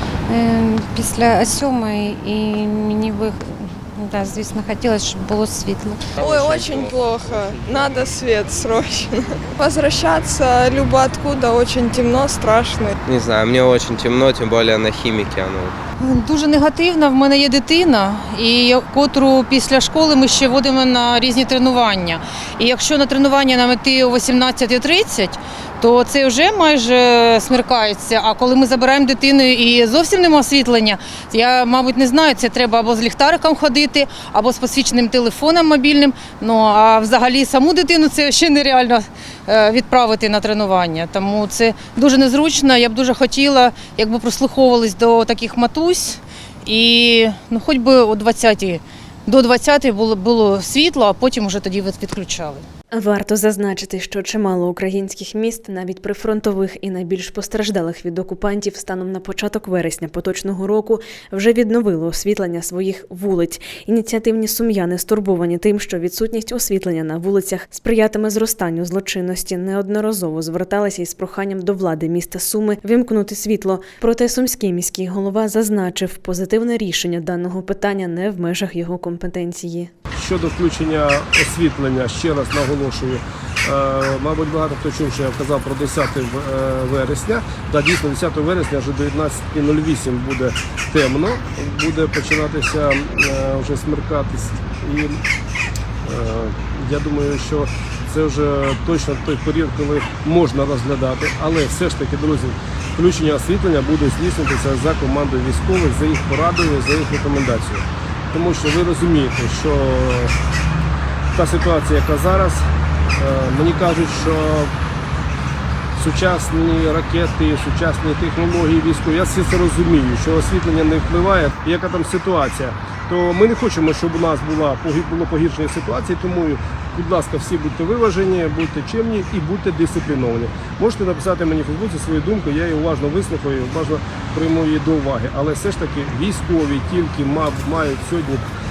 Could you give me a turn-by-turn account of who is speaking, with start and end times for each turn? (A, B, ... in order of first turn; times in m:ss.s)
0:00.3-0:06.0 A
0:06.2-0:12.9 B
0:13.0-0:15.8 C
0:16.0-0:52.6 D
0:52.9-1:19.9 E
1:20.2-1:35.2 F
1:36.0-1:50.3 F
1:51.3-1:52.7 F
1:53.2-1:54.7 F
1:56.0-2:18.4 F